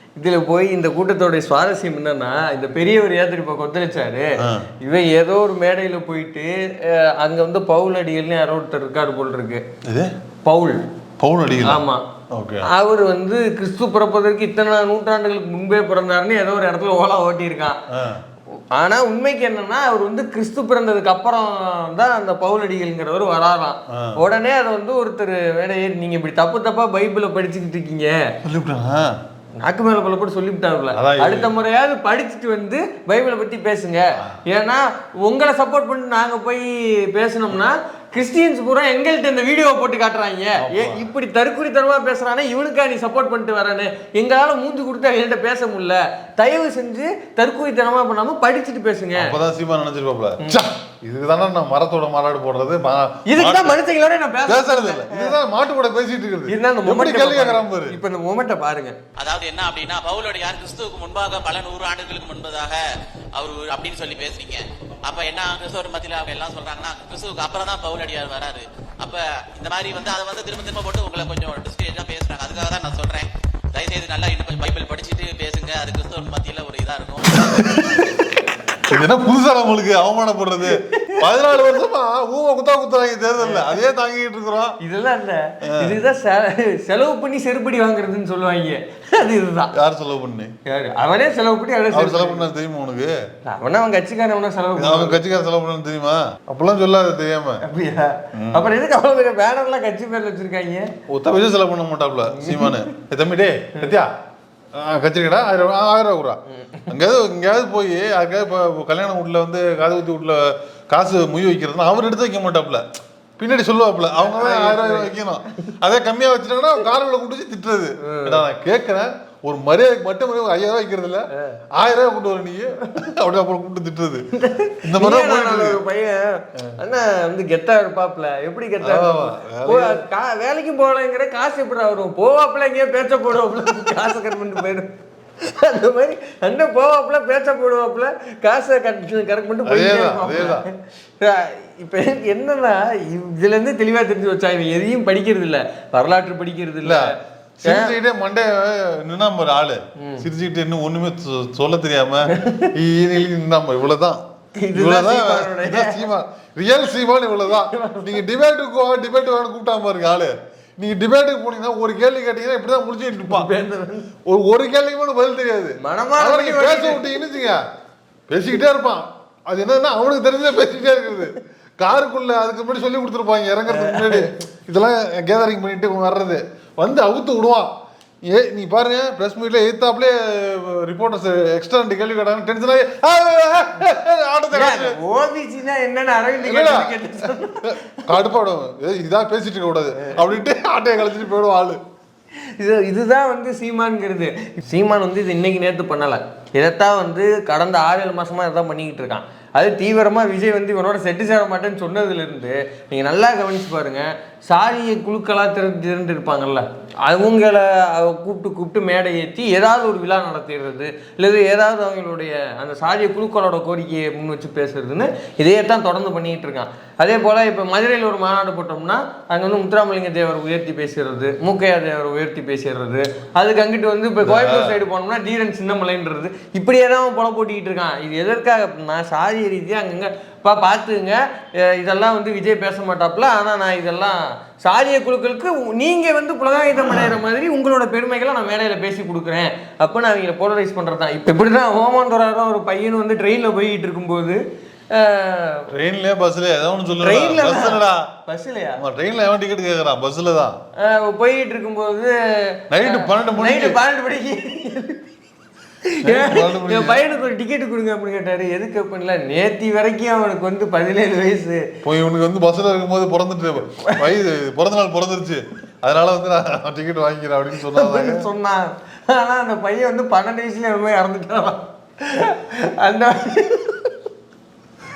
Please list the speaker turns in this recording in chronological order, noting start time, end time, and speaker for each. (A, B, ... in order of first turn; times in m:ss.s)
0:00.2-0:04.3 A
0:04.4-0:04.7 B
0:04.8-0:09.6 A
0:09.9-0:10.1 B
0:10.4-0:10.8 A
0:11.2-0:12.7 B
0:11.6-0:12.0 A
0:12.6-0:17.8 A
0:17.9-0:18.2 B
0:18.7-0:28.2 A
0:28.4-0:29.1 B
0:29.6-0:49.4 A
0:30.9-0:31.5 B
0:40.6-0:41.1 B
0:49.2-0:53.8 B
0:53.3-0:55.3 A
0:54.5-0:58.0 B
0:56.5-0:59.0 A
0:59.2-1:02.8 C
1:03.3-1:17.8 C
1:17.5-1:18.1 B
1:18.9-1:24.8 B
1:20.7-1:21.2 A
1:23.4-1:23.8 A
1:24.8-1:29.7 A
1:25.6-1:26.0 B
1:29.8-1:30.5 B
1:30.7-1:32.4 A
1:31.9-1:33.2 B
1:33.4-1:35.2 A
1:34.8-1:37.6 B
1:37.6-1:40.9 A
1:38.4-1:38.7 B
1:41.1-1:44.1 B
1:42.3-1:42.9 A
1:44.8-1:46.4 B
1:46.5-1:46.9 A
1:46.9-1:52.8 B
1:53.4-2:04.2 B
1:54.2-1:55.1 A
1:58.0-1:58.4 A
2:04.4-2:28.0 A
2:04.8-2:05.8 B
2:08.8-2:10.0 B
2:19.6-2:20.7 B
2:26.8-2:34.2 B
2:30.0-2:30.3 A
2:32.3-2:32.7 A
2:34.6-2:36.0 A
2:34.8-2:43.5 B
2:37.5-2:38.2 A
2:43.3-2:44.1 A
2:44.3-2:47.6 B
2:45.8-2:47.2 A
2:48.3-2:57.7 B
2:53.7-2:54.4 A
2:58.3-3:05.0 B
3:04.5-3:08.0 A
3:06.4-3:11.8 B
3:12.6-4:04.4 A
3:44.2-3:44.8 B
4:04.9-4:05.7 A
4:05.8-4:08.0 B
4:07.0-4:08.8 A
4:08.8-4:10.6 B
4:10.8-4:15.1 A
4:12.7-4:13.8 B
4:15.9-4:21.7 A
4:16.0-4:17.0 B
4:21.8-4:28.3 B
4:23.8-4:24.1 A
4:27.6-4:34.0 A